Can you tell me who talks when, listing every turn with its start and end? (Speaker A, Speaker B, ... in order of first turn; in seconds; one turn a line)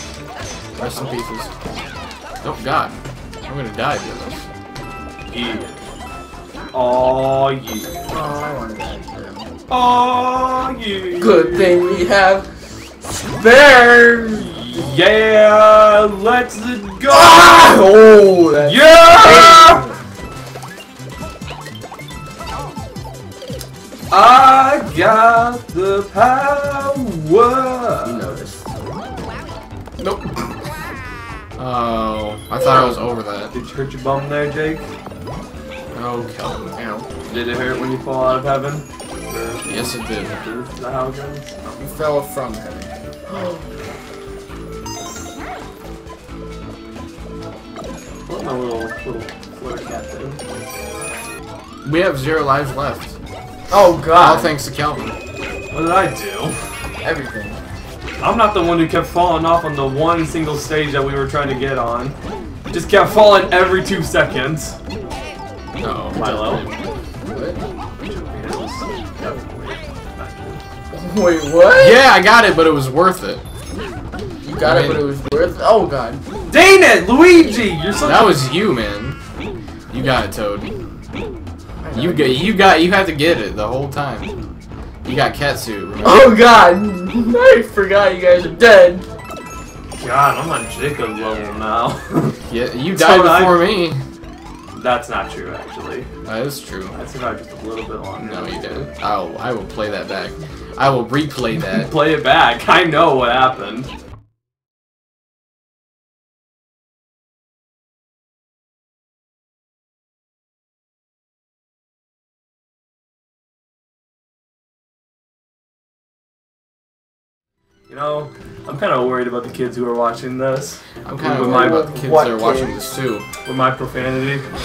Speaker A: 0.8-1.5
Speaker A: 2.4-2.9
Speaker A: 3.5-4.5
Speaker B: 5.3-5.8
Speaker B: 6.7-8.0
Speaker C: 8.1-9.5
Speaker B: 9.7-12.1
Speaker C: 11.2-14.7
Speaker B: 14.7-17.9
Speaker C: 17.1-19.9
Speaker B: 18.6-19.9
Speaker B: 24.1-28.2
Speaker C: 28.0-28.7
Speaker A: 30.0-30.5
Speaker A: 31.6-33.5
Speaker B: 33.5-34.9
Speaker A: 35.9-36.8
Speaker C: 36.8-37.1
Speaker B: 37.3-41.6
Speaker A: 39.6-40.4
Speaker C: 41.8-43.6
Speaker B: 48.3-50.4
Speaker A: 51.8-53.1
Speaker C: 53.7-54.5
Speaker A: 54.1-55.1
Speaker B: 55.7-56.6
Speaker C: 57.0-57.6
Speaker B: 58.2-62.1
Speaker B: 62.7-64.8
Speaker A: 65.8-66.2
Speaker C: 65.8-66.7
Speaker B: 66.1-66.6
Speaker C: 67.2-67.6
Speaker B: 68.0-70.6
Speaker C: 70.9-72.0
Speaker A: 71.7-73.4
Speaker C: 74.4-76.2
Speaker A: 74.6-75.1
Speaker B: 76.5-78.5
Speaker A: 78.0-79.2
Speaker A: 79.9-80.7
Speaker C: 81.8-82.6
Speaker A: 81.9-84.3
Speaker A: 85.0-86.4
Speaker C: 86.0-89.1
Speaker B: 90.0-92.4
Speaker A: 92.5-94.0
Speaker B: 92.9-93.7
Speaker B: 94.8-96.1
Speaker A: 96.2-96.9
Speaker B: 96.9-98.9
Speaker A: 98.2-101.9
Speaker B: 101.6-103.9
Speaker B: 117.9-122.0
Speaker A: 121.0-123.2
Speaker C: 121.3-122.9
Speaker B: 123.4-124.5